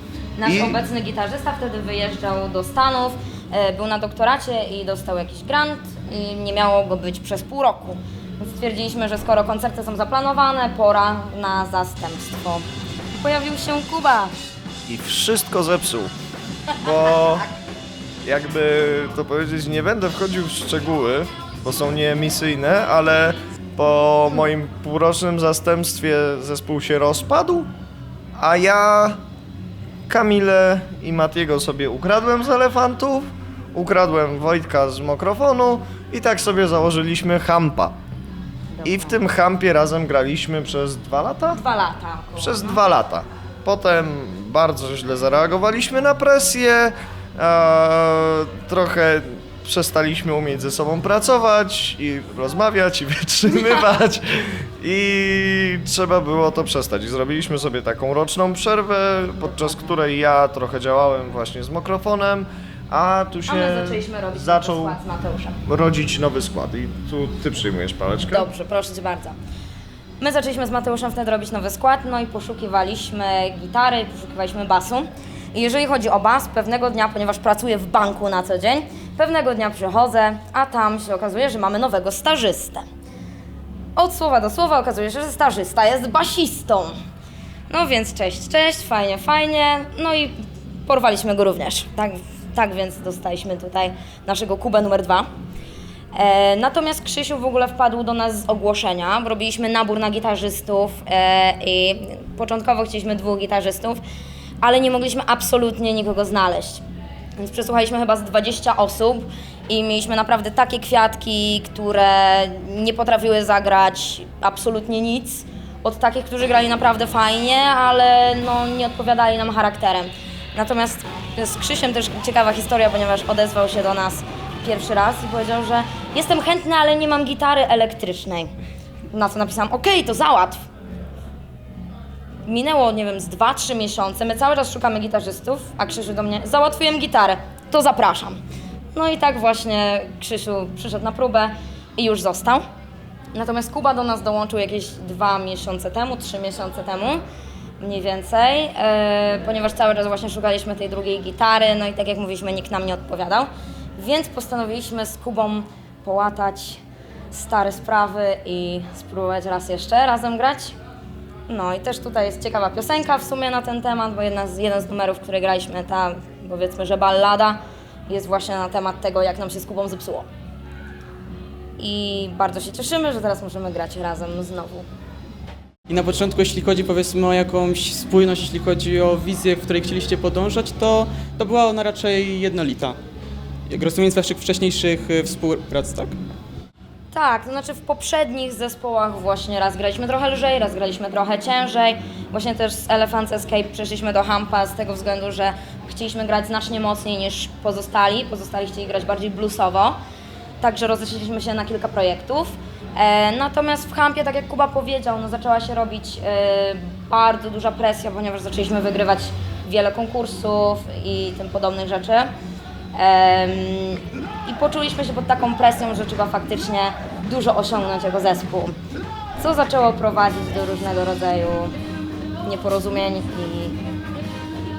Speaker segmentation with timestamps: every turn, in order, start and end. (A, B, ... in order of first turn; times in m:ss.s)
0:00.4-0:14.4 A
0:00.4-0:00.8 B
0:14.9-0:16.1 B
0:16.8-0:17.5 B
0:18.2-0:27.7 B
0:28.4-0:29.2 B
0:30.1-0:38.0 B
0:38.7-0:39.2 A
0:38.8-0:41.6 B
0:41.5-0:42.8 A
0:42.4-1:05.0 B
1:03.5-1:05.6 A
1:05.7-1:08.5 B
1:08.3-1:09.4 A
1:10.2-1:22.8 A
1:24.0-1:27.0 A
1:27.7-1:35.3 A
1:36.2-1:44.0 A
1:44.6-1:46.8 A
1:47.4-2:08.5 A
2:09.1-2:10.6 A
2:12.5-2:18.4 A
2:18.9-2:22.6 A
2:23.3-2:27.2 A
2:27.8-2:40.8 A
2:41.5-2:50.3 A
2:51.8-2:54.9 A
2:55.9-3:03.0 C
3:03.7-3:06.2 C
3:07.1-3:20.0 A
3:20.6-3:32.3 A
3:33.0-3:38.8 A
3:39.4-3:41.8 A
3:42.4-3:43.8 A